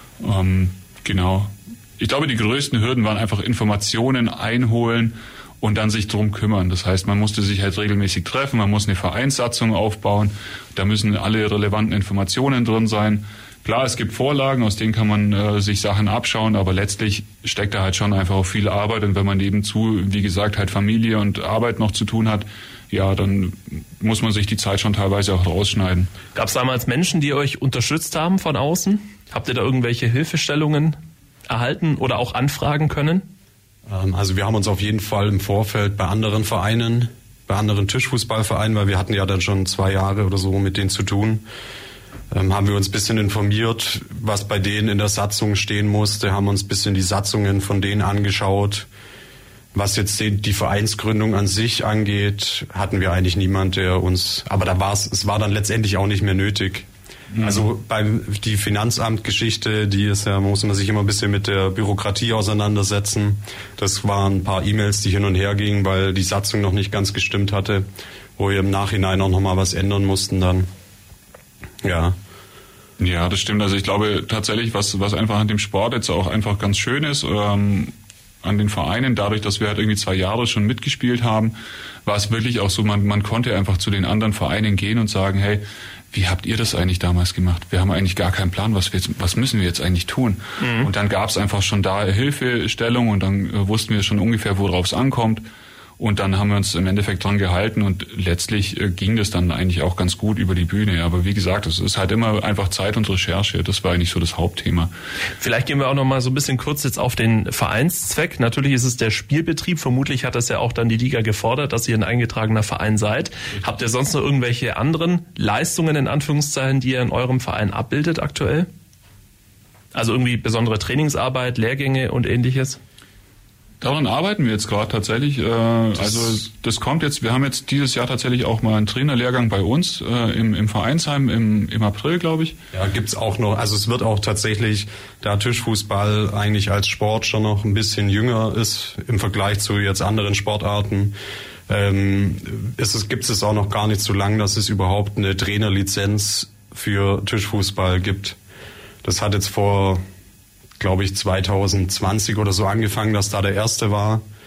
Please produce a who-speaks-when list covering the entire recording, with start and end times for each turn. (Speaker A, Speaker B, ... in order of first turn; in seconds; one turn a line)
Speaker A: 0.2-26.1
Speaker B: 26.4-31.0
Speaker B: 31.5-33.3
Speaker C: 33.9-41.4
Speaker C: 42.3-48.9
Speaker C: 49.7-56.9
Speaker A: 57.3-57.7
Speaker C: 57.4-67.9
Speaker C: 68.4-70.7
Speaker C: 71.8-72.2
Speaker A: 73.0-77.9
Speaker A: 78.4-81.5
Speaker A: 82.0-95.4
Speaker B: 90.6-90.9
Speaker A: 96.0-104.9
Speaker B: 105.4-118.7
Speaker B: 119.9-122.8
Speaker A: 123.8-132.6
Speaker C: 126.0-126.4
Speaker C: 132.7-141.2
Speaker C: 141.7-148.4
Speaker C: 149.0-150.0
Speaker C: 150.8-154.2